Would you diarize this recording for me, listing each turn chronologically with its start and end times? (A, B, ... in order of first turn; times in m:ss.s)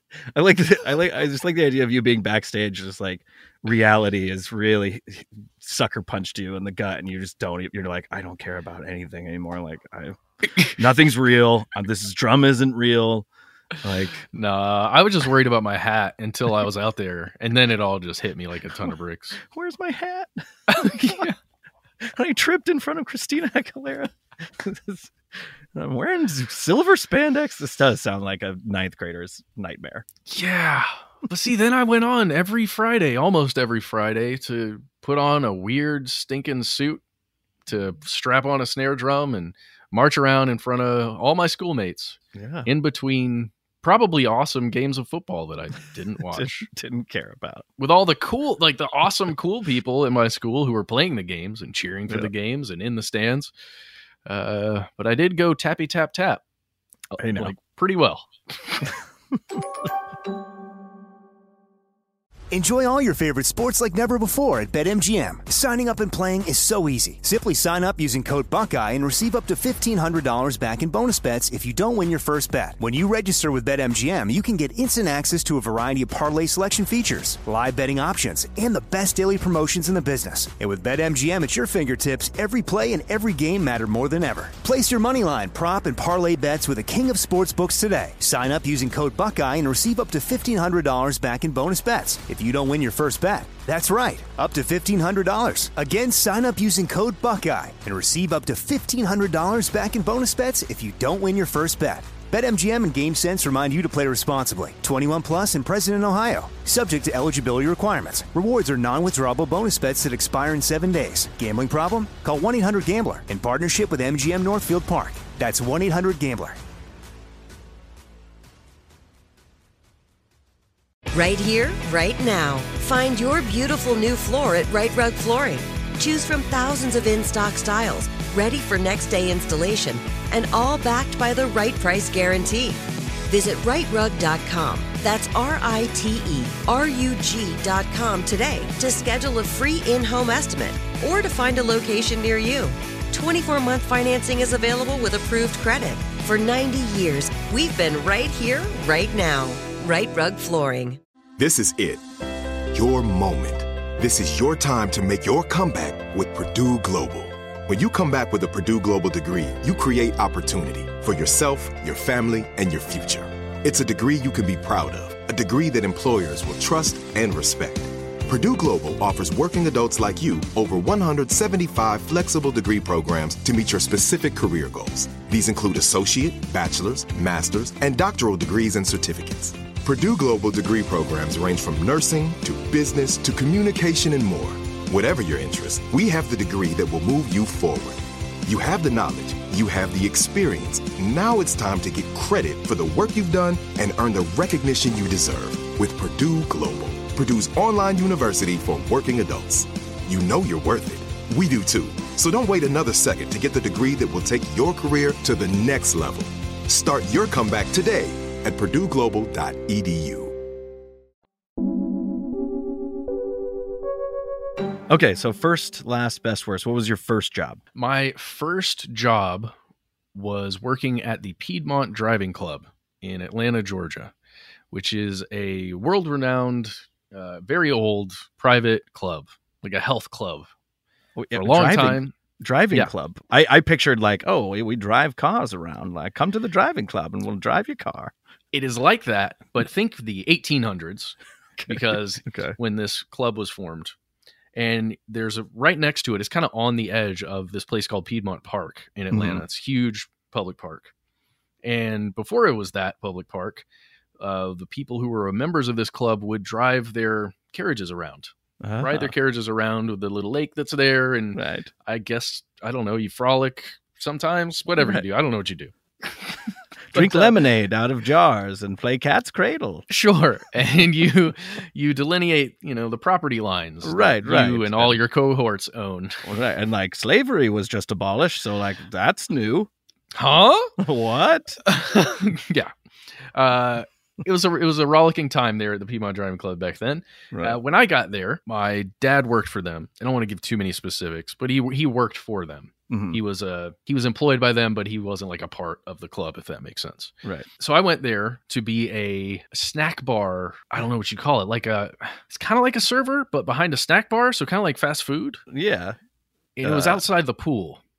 0:00.3-0:13.3 A
0:13.8-0:14.2 A
0:14.3-0:19.4 B
0:19.5-0:21.3 A
0:20.7-0:21.3 B
0:22.0-0:25.1 A
0:25.7-0:30.0 A
0:30.3-0:37.0 B
0:37.6-0:46.7 B
0:42.3-0:42.7 A
0:46.3-0:47.6 A
0:47.8-0:53.5 B
0:54.2-0:56.4 B
0:57.1-0:58.8 B
0:57.2-0:57.5 A
1:02.5-1:56.6 C
2:01.1-2:31.0 D
2:31.4-2:32.0 E
2:32.7-3:30.3 E
3:34.9-3:37.6 A
3:37.7-3:39.5 B
3:40.1-3:44.1 B
3:44.7-3:50.5 B
3:51.2-3:58.1 A
3:51.3-3:52.1 B
3:58.5-4:03.9 B
4:01.6-4:02.6 A
4:04.5-4:10.9 B
4:09.1-4:09.4 A
4:11.6-4:13.6 B
4:14.2-4:26.3 B
4:18.6-4:19.1 A
4:21.3-4:21.7 A
4:24.8-4:25.0 A
4:26.9-4:27.3 B
4:26.9-4:29.8 A
4:29.9-4:36.2 B
4:33.8-4:35.0 A
4:36.2-4:39.7 A
4:40.1-4:40.7 B
4:40.8-4:41.6 A
4:41.6-4:42.7 B
4:43.3-5:05.4 B
4:47.3-4:47.6 A
4:52.9-4:53.2 A
4:57.2-4:57.5 A
5:05.5-5:06.0 A
5:06.6-5:07.8 B
5:06.6-5:07.0 A